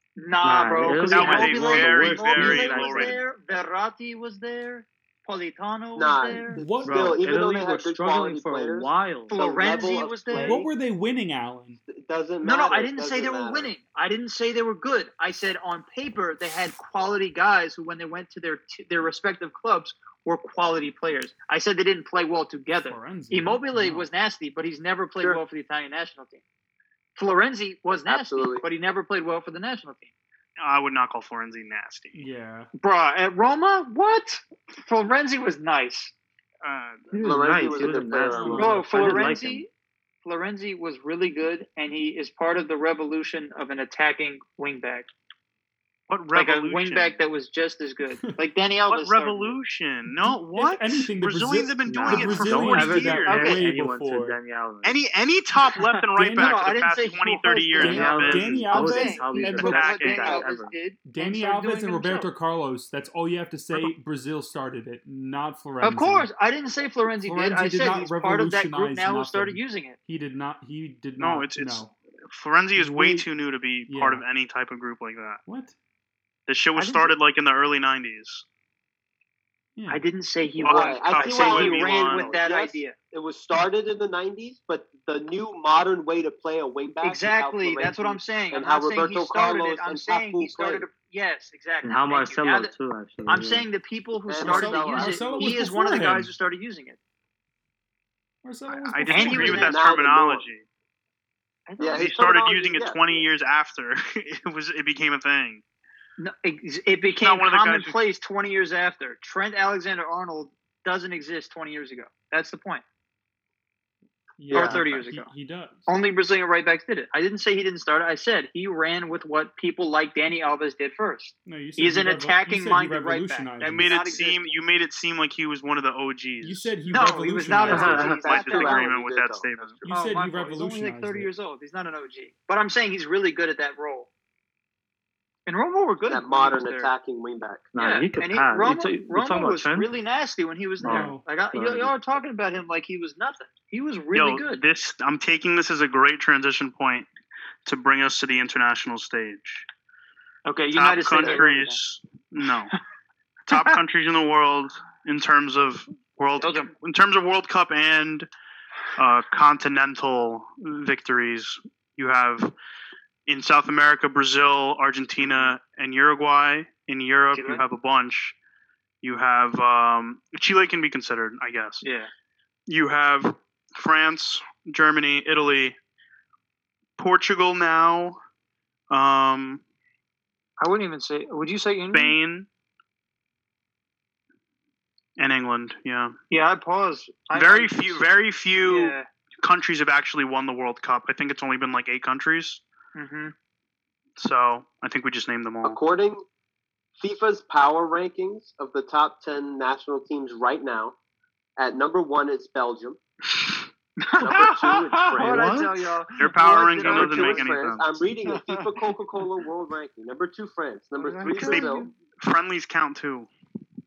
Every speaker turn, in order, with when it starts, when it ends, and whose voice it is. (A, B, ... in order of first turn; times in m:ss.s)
0:00.2-0:06.6 A
0:00.4-0:03.2 B
0:01.0-0:03.2 C
0:06.0-0:10.7 D
0:06.6-0:07.2 E
0:06.8-0:09.3 B
0:09.3-0:10.6 A
0:10.4-0:11.8 E
0:11.9-0:13.7 D
0:12.4-0:26.4 A
0:22.8-0:24.1 E
0:27.2-0:30.1 A
0:27.9-0:28.6 D
0:30.6-0:32.3 C
0:32.2-0:32.7 E
0:32.8-0:36.1 A
0:36.6-0:37.1 C
0:37.1-0:39.6 B
0:37.2-0:38.7 D
0:38.4-0:39.3 E
0:38.6-0:39.7 A
0:40.2-0:45.1 A
0:46.1-0:47.2 C
0:46.3-0:49.6 A
0:48.9-0:53.6 C
0:50.1-0:54.4 E
0:51.9-0:55.0 B
0:52.8-0:53.6 A
0:54.8-0:58.7 C
0:55.8-1:02.3 A
0:56.2-0:56.7 E
0:57.8-1:00.0 E
0:57.8-1:00.7 B
0:59.6-1:00.3 C
1:01.0-1:06.3 E
1:05.8-1:10.0 A
1:07.2-1:11.9 E
1:11.2-1:15.4 C
1:12.8-1:13.3 E
1:13.9-1:14.2 E
1:15.5-1:15.8 E
1:16.5-1:18.4 C
1:16.8-1:17.1 A
1:19.8-1:20.0 E
1:19.9-1:23.0 A
1:20.6-1:30.9 D
1:20.6-1:22.4 C
1:27.0-1:32.7 A
1:31.8-1:33.7 B
1:33.3-1:37.0 A
1:34.3-1:35.6 D
1:34.4-1:36.3 E
1:38.4-1:39.7 E
1:38.7-1:40.6 C
1:39.1-1:39.9 A
1:39.4-1:40.5 D
1:41.7-1:42.1 A
1:41.8-1:43.3 D
1:41.9-1:45.6 C
1:46.2-1:52.8 A
1:47.2-1:48.0 C
1:54.4-1:55.9 E
1:54.5-1:55.3 A
1:54.5-1:54.8 B
1:54.5-1:54.8 C
1:55.9-2:04.5 A
2:01.5-2:04.1 E
2:03.8-2:06.7 C
2:06.4-2:08.2 E
2:06.9-2:08.9 A
2:07.7-2:08.3 B
2:07.7-2:10.0 D
2:08.2-2:09.8 C
2:09.9-2:11.3 E
2:09.9-2:14.1 A
2:15.5-2:16.9 A
2:16.1-2:17.6 D
2:17.7-2:19.9 B
2:17.8-2:24.6 A
2:20.8-2:21.9 B
2:20.8-2:21.2 E
2:24.1-2:27.1 C
2:27.6-2:29.7 C
2:30.5-2:31.8 A
2:30.7-2:32.7 C
2:33.5-2:38.3 C
2:33.5-2:33.8 A
2:36.4-2:36.7 A
2:39.0-2:42.6 C
2:43.3-2:48.4 C
2:47.3-2:47.6 A
2:49.0-2:51.8 C
2:51.8-2:52.1 A
2:52.7-2:55.8 C
2:57.0-2:58.2 C
2:58.9-2:59.6 C
3:00.6-3:02.2 A
3:01.9-3:02.5 C
3:05.2-3:06.1 C
3:06.3-3:08.0 A
3:07.3-3:12.6 C
3:08.6-3:09.1 A
3:13.0-3:13.3 A
3:14.2-3:15.8 C
3:15.6-3:16.2 D
3:17.0-3:21.0 D
3:21.6-3:23.0 D
3:24.0-3:27.5 A
3:24.2-3:25.5 D
3:25.2-3:27.9 C
3:26.8-3:31.9 D
3:28.3-3:28.7 A
3:31.0-3:31.9 A
3:31.3-3:33.3 C